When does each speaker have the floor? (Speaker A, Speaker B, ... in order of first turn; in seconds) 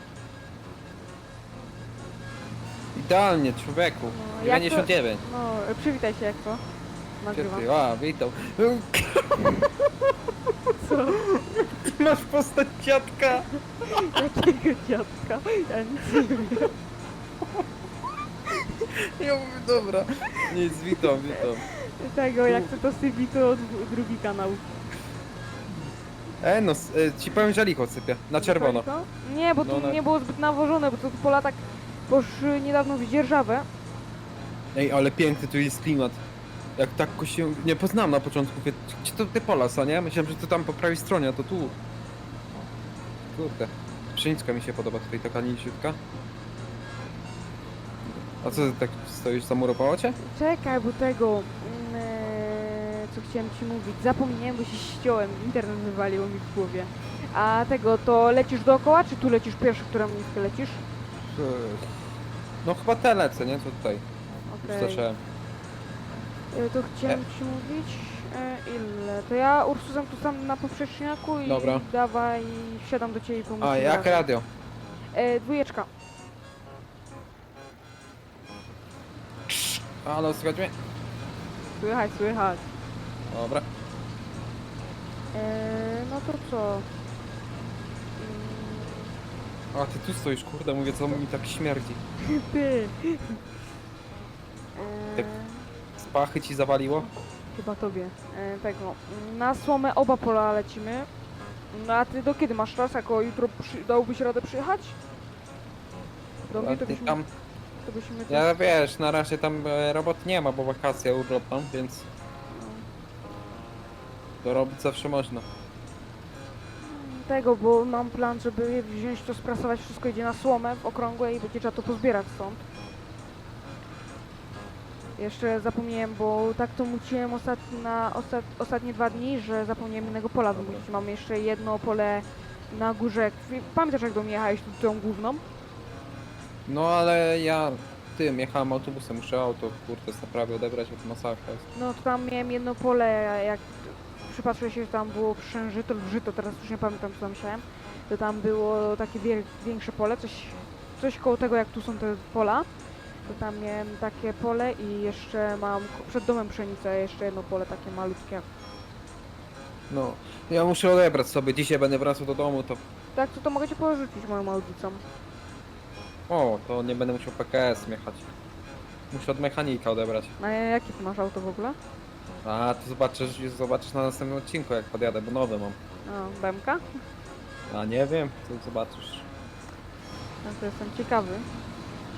Speaker A: 2.9-5.2, 7.3-10.1, 11.2-14.2, 18.9-21.7, 22.4-22.7, 26.4-28.9, 29.6-30.0, 34.7-36.2, 36.8-41.8, 43.3-46.0, 48.0-50.2, 61.2-61.9, 62.6-64.0, 64.6-65.2, 71.5-71.9, 73.6-74.5, 79.5-80.7, 83.3-83.7, 89.7-92.0, 96.0-97.1, 106.5-107.3, 108.3-112.1, 114.4-115.5, 130.5-130.8, 136.7-141.6, 159.9-162.8, 166.3-168.3, 169.1-170.3, 172.4-175.8, 177.7-179.2
Speaker B: 4.1-6.6, 7.2-7.7, 10.8-11.3, 13.8-16.7, 21.4-24.7, 28.4-33.7, 48.5-48.8, 50.2-60.8, 64.5-65.1, 66.5-74.3, 75.1-75.9, 81.7-82.7, 85.3-86.9, 88.2-89.1, 92.2-93.4, 94.8-95.7, 97.5-101.1, 101.7-105.0, 106.5-107.2, 107.8-108.5, 112.5-112.9, 116.8-122.6, 125.2-135.4, 141.7-152.7, 153.2-158.5, 163.1-165.0, 170.4-171.8, 176.1-176.8, 180.4-181.5